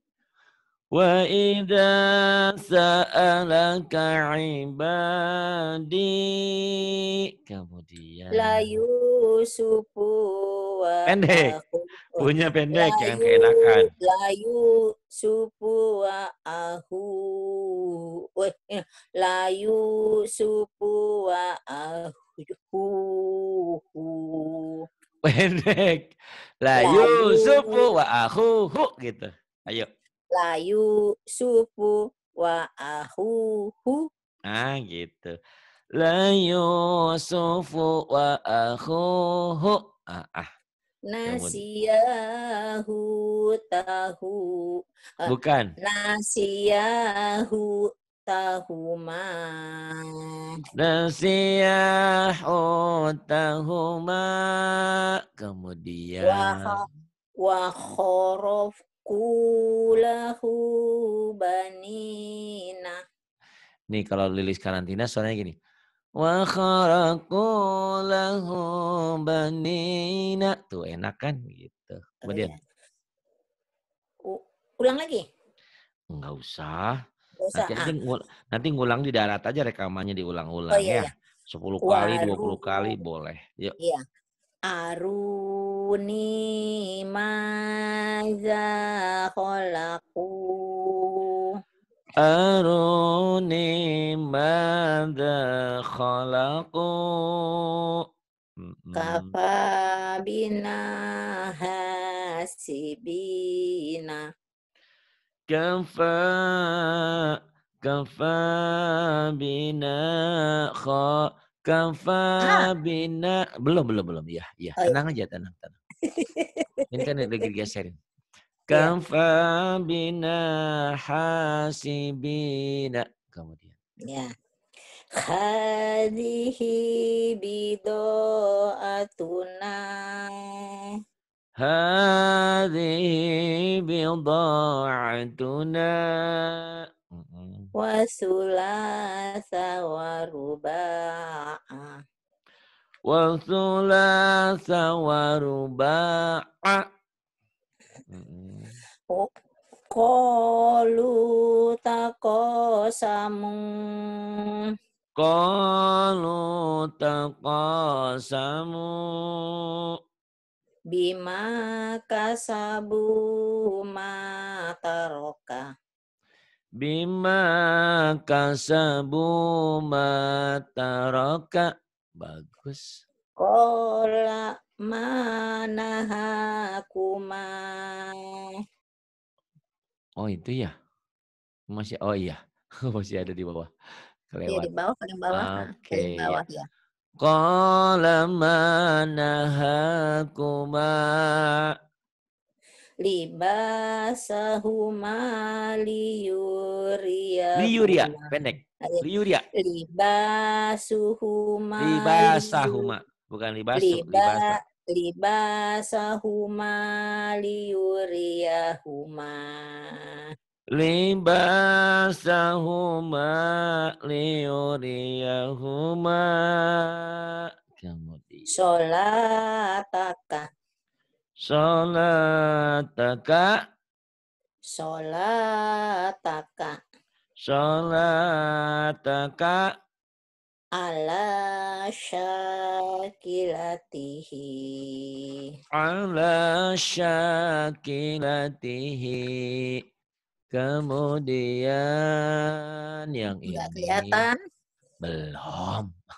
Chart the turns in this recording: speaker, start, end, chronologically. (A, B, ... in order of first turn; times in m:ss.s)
0:00.9-0:08.8 A
0:08.4-0:24.9 B
0:11.1-0:11.5 A
0:12.2-0:13.9 A
0:25.2-0:26.1 A
0:26.6-0:29.9 A
0:26.8-0:27.8 B
0:30.3-0:34.1 B
0:34.5-0:35.3 A
0:36.0-0:40.5 A
0:41.1-0:45.3 B
0:41.3-0:41.6 A
0:45.2-0:45.7 A
0:45.8-0:50.6 B
0:50.8-0:56.8 A
0:56.2-0:56.8 B
0:57.4-1:03.0 B
1:03.9-1:05.6 A
1:06.2-1:12.5 A
1:12.3-1:12.6 B
1:14.3-1:15.2 B
1:16.1-1:16.9 A
1:17.4-1:17.9 B
1:17.6-1:23.7 A
1:20.7-1:21.1 B
1:21.9-1:22.9 B
1:24.7-1:31.5 B
1:32.2-1:38.0 A
1:38.6-1:39.3 A
1:39.0-1:40.8 B
1:41.6-1:44.2 B
1:45.5-1:47.3 A
1:47.8-1:55.8 A
1:56.0-1:56.9 B
1:56.9-1:58.0 A
1:58.7-2:03.7 A
2:05.2-2:09.9 B
2:11.6-2:17.7 A
2:17.8-2:22.0 B
2:23.1-2:26.8 A
2:28.1-2:28.8 A
2:29.9-2:34.4 B
2:35.2-2:39.6 A
2:40.9-2:45.6 B
2:46.8-2:53.0 A
2:53.4-2:58.2 B
3:00.2-3:00.7 A
3:01.7-3:03.7 A
3:04.3-3:04.7 A
3:04.5-3:06.6 B
3:05.3-3:06.4 A
3:07.2-3:11.7 A
3:13.0-3:18.3 B
3:17.6-3:19.4 A
3:19.6-3:22.9 B
3:21.8-3:24.6 A
3:23.8-3:30.0 B
3:30.7-3:38.5 A
3:38.6-3:40.5 B
3:41.4-3:43.6 A
3:44.8-3:46.8 B
3:47.4-3:49.7 A
3:50.8-3:55.4 B
3:55.8-3:59.8 A
4:00.5-4:04.2 A
4:03.5-4:04.4 B
4:05.0-4:05.9 A